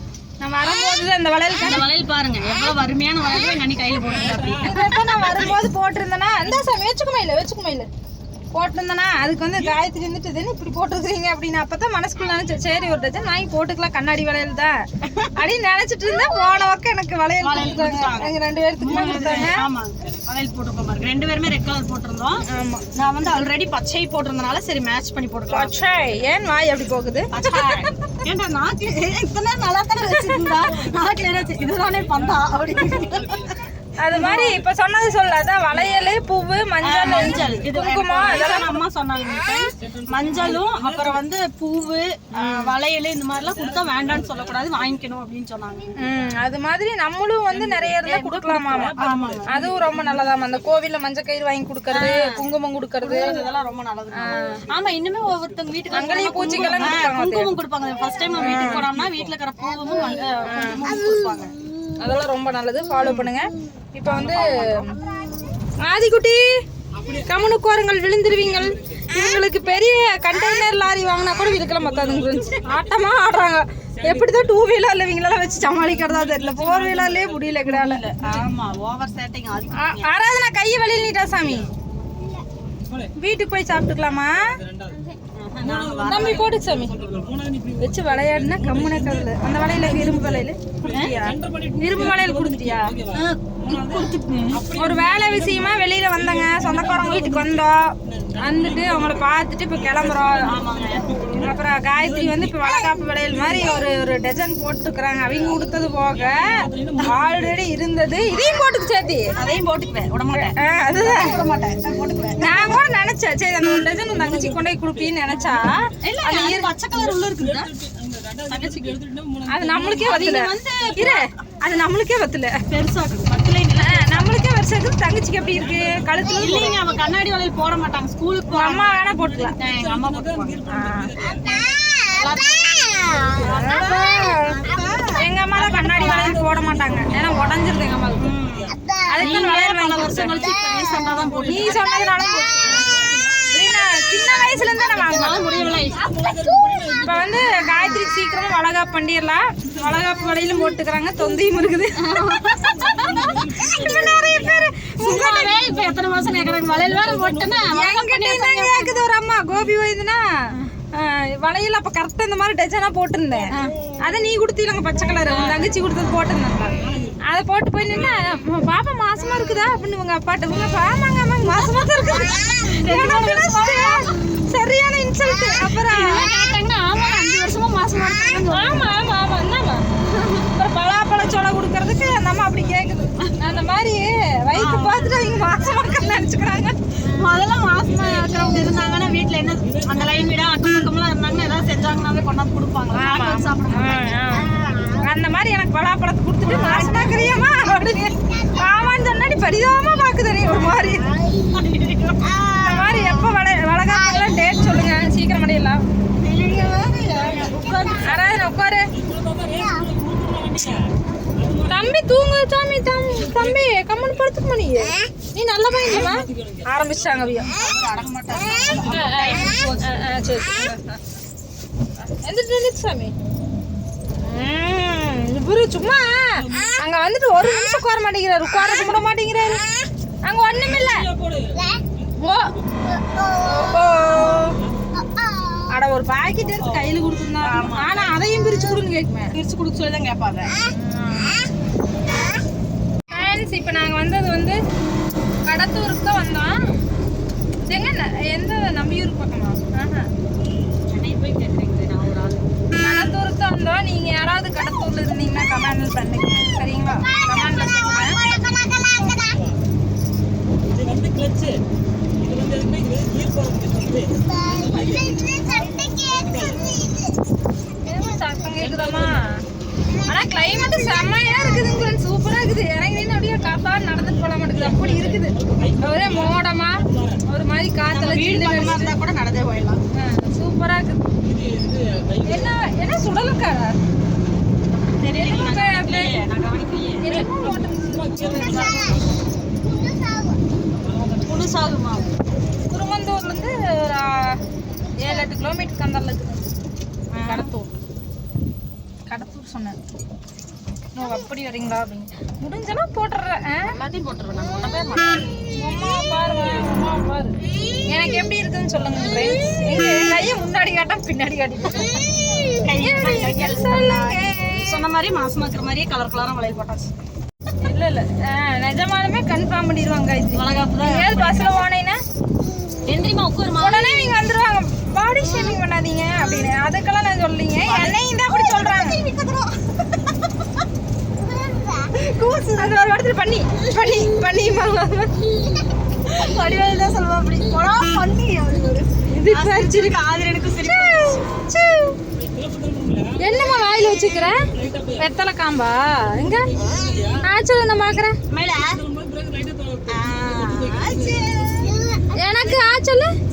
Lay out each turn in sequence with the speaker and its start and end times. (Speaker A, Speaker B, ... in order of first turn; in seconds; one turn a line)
Speaker A: 0.4-1.8
Speaker B: 1.6-5.5
Speaker C: 4.1-4.9
Speaker A: 4.6-7.9
Speaker A: 8.5-14.8
Speaker C: 9.6-9.8
Speaker A: 15.3-19.6
Speaker B: 17.4-22.4
Speaker C: 19.1-19.5
Speaker A: 22.4-22.8
Speaker B: 22.9-25.8
Speaker A: 25.5-27.3
Speaker B: 27.3-33.5
Speaker C: 30.6-33.5
Speaker A: 34.0-38.8
Speaker B: 34.1-34.6
Speaker B: 36.8-45.9
Speaker C: 37.0-37.6
Speaker C: 39.8-41.2
Speaker C: 42.3-42.8
Speaker C: 43.3-45.1
Speaker A: 46.0-49.0
Speaker C: 47.5-50.5
Speaker B: 48.2-49.7
Speaker A: 49.5-53.4
Speaker B: 51.9-52.4
Speaker B: 53.0-61.5
Speaker A: 54.1-54.5
Speaker A: 55.9-57.5
Speaker C: 55.9-57.1
Speaker C: 58.3-59.3
Speaker A: 58.4-58.8
Speaker A: 60.5-60.8
Speaker A: 62.0-65.0
Speaker B: 63.0-63.3
Speaker B: 64.1-64.9
Speaker A: 65.8-66.4
Speaker C: 66.9-67.4
Speaker A: 67.2-78.0
Speaker C: 68.3-69.2
Speaker C: 71.5-73.0
Speaker C: 73.9-74.6
Speaker C: 75.5-77.6
Speaker B: 77.6-80.1
Speaker C: 78.2-78.5
Speaker A: 79.7-81.7
Speaker C: 82.8-83.1
Speaker A: 83.2-84.5
Speaker C: 84.5-85.1
Speaker B: 85.4-86.5
Speaker C: 85.6-103.8
Speaker A: 86.1-86.9
Speaker A: 87.8-92.9
Speaker B: 93.1-94.6
Speaker A: 94.7-100.5
Speaker B: 100.4-101.3
Speaker A: 101.3-109.3
Speaker C: 105.2-107.6
Speaker B: 109.3-112.7
Speaker A: 110.3-111.3
Speaker A: 112.4-116.7
Speaker C: 113.8-116.0
Speaker B: 116.0-117.7
Speaker C: 116.9-121.1
Speaker B: 118.5-119.0
Speaker A: 119.5-122.6
Speaker B: 120.0-121.1
Speaker B: 122.7-124.5
Speaker A: 123.8-126.8
Speaker C: 125.3-126.5
Speaker B: 126.4-129.0
Speaker A: 128.5-129.6
Speaker C: 129.0-131.5
Speaker B: 129.6-130.7
Speaker A: 130.7-131.1
Speaker B: 131.6-136.3
Speaker A: 133.3-138.3
Speaker C: 135.6-138.8
Speaker B: 138.2-141.9
Speaker A: 139.1-140.4
Speaker C: 141.1-141.8
Speaker A: 141.4-142.9
Speaker C: 142.6-143.8
Speaker A: 143.5-145.4
Speaker C: 144.4-148.0
Speaker B: 144.9-146.1
Speaker A: 147.0-152.0
Speaker C: 149.7-150.1
Speaker B: 152.0-153.4
Speaker C: 152.6-154.7
Speaker A: 153.3-155.7
Speaker B: 155.0-159.0
Speaker C: 155.4-157.8
Speaker A: 157.7-160.2
Speaker A: 160.9-176.3
Speaker B: 165.2-165.7
Speaker C: 166.8-167.2
Speaker C: 167.8-168.2
Speaker B: 171.5-174.4
Speaker B: 175.6-178.9
Speaker A: 178.5-179.8
Speaker B: 180.1-180.5
Speaker A: 180.5-186.8
Speaker B: 184.5-185.1
Speaker B: 187.0-194.4
Speaker C: 187.9-188.3
Speaker C: 189.6-190.2
Speaker A: 192.9-201.1
Speaker B: 196.5-197.2
Speaker B: 201.2-203.2
Speaker A: 202.6-205.8
Speaker B: 206.2-208.3
Speaker A: 207.9-208.9
Speaker C: 208.9-212.0
Speaker A: 211.7-217.5
Speaker C: 213.1-214.2
Speaker C: 215.8-217.3
Speaker B: 217.3-219.9
Speaker C: 218.0-219.1
Speaker A: 218.8-221.0
Speaker A: 222.0-223.1
Speaker A: 224.2-229.6
Speaker C: 226.3-226.8
Speaker A: 230.2-231.1
Speaker C: 230.6-232.9
Speaker A: 232.2-232.5
Speaker A: 233.4-234.6
Speaker C: 234.3-234.8
Speaker A: 235.7-239.3
Speaker B: 236.5-238.2
Speaker B: 239.3-240.5
Speaker A: 240.7-241.4
Speaker A: 243.1-244.6
Speaker A: 245.4-246.5
Speaker A: 247.6-250.1
Speaker B: 250.9-252.6
Speaker A: 252.7-258.2
Speaker C: 258.7-259.6
Speaker C: 260.6-261.6
Speaker C: 262.2-265.2
Speaker C: 265.9-266.7
Speaker A: 267.8-269.4
Speaker C: 268.6-269.2
Speaker A: 270.0-278.9
Speaker C: 274.3-277.2
Speaker B: 277.9-279.8
Speaker A: 279.9-281.0
Speaker C: 281.2-282.5
Speaker A: 282.2-283.8
Speaker B: 284.7-287.1
Speaker A: 285.1-286.2
Speaker A: 287.0-289.0
Speaker C: 287.1-289.3
Speaker C: 290.8-291.5
Speaker B: 291.2-292.1
Speaker A: 292.7-294.4
Speaker A: 295.0-296.4
Speaker B: 297.1-297.5
Speaker A: 297.2-297.7
Speaker A: 299.1-299.8
Speaker A: 300.9-303.7
Speaker B: 303.6-305.3
Speaker A: 305.6-307.3
Speaker A: 307.9-314.6
Speaker B: 312.5-316.9
Speaker A: 317.6-322.0
Speaker B: 320.3-321.6
Speaker B: 322.9-324.2
Speaker A: 323.6-329.0
Speaker B: 327.6-330.4
Speaker B: 331.2-332.9
Speaker A: 332.5-335.1
Speaker B: 336.1-341.2
Speaker A: 339.1-340.0
Speaker A: 340.6-342.0
Speaker C: 342.1-343.2
Speaker A: 343.2-344.5
Speaker C: 344.4-345.1
Speaker A: 345.0-346.5
Speaker C: 346.1-347.2
Speaker A: 347.2-348.1
Speaker B: 348.3-348.8
Speaker C: 348.6-351.7
Speaker B: 349.9-352.6
Speaker A: 352.1-353.1